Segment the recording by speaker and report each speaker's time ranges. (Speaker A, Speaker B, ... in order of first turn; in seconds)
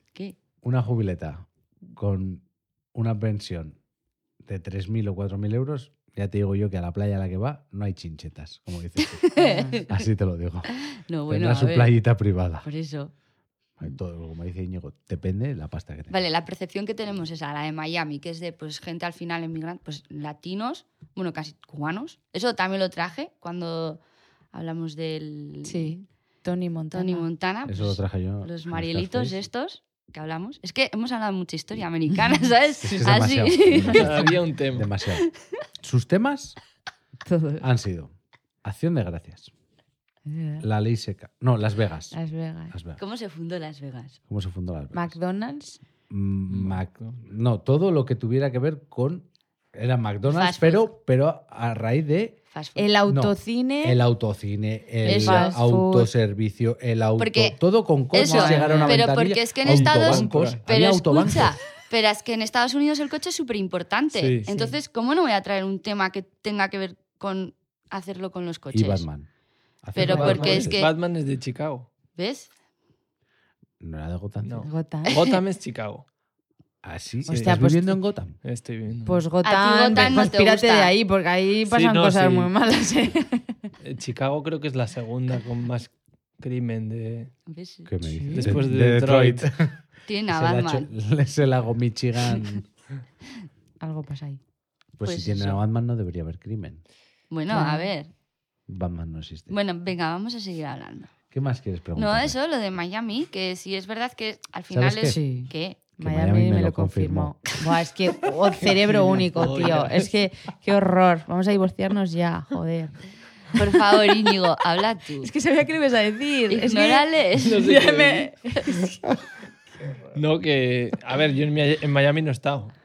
Speaker A: 0.6-3.8, 4.4-9.2, 9.9-10.7, 11.3-12.7, 13.8-16.1, 27.7-29.4, 32.8-35.3, 35.8-36.6, 37.6-38.1, 38.6-39.5, 40.6-42.2, 42.7-43.0, 44.3-45.2, 46.1-52.4, 53.1-61.6, 68.7-69.3, 69.8-70.8, 73.8-74.7, 76.8-78.3, 87.9-92.7, 95.0-96.8, 98.7-99.5, 101.3-102.4, 104.7-105.2, 106.0-107.4
Speaker B: 9.0-10.0, 10.8-11.9, 12.6-13.1, 16.1-24.0, 24.5-26.0, 26.9-34.4, 43.0-44.2, 50.3-50.9, 52.5-52.9, 55.0-55.6, 57.2-57.6, 58.1-69.0, 70.0-70.9, 72.2-72.5, 79.4-80.9, 87.5-87.9, 90.1-90.9, 95.0-95.6, 97.3-98.1, 99.5-101.1, 102.0-105.8, 113.5-115.3, 116.5-117.8
Speaker C: 9.4-9.8, 25.6-27.3, 37.3-37.7, 40.3-40.7, 42.1-42.7, 44.9-45.8, 52.8-54.0, 55.0-56.1, 74.6-75.4, 77.3-78.0, 79.1-83.7, 88.0-88.6, 93.8-94.4, 97.5-97.9, 105.1-113.0, 115.2-119.0
Speaker D: 33.8-34.9, 46.5-47.2, 58.2-59.1, 59.6-60.6, 64.1-64.7, 70.0-71.9, 74.4-76.0, 77.3-77.6, 78.4-79.3, 81.7-82.5, 83.8-87.3, 88.3-89.5, 108.6-110.1, 117.4-118.3, 120.1-122.7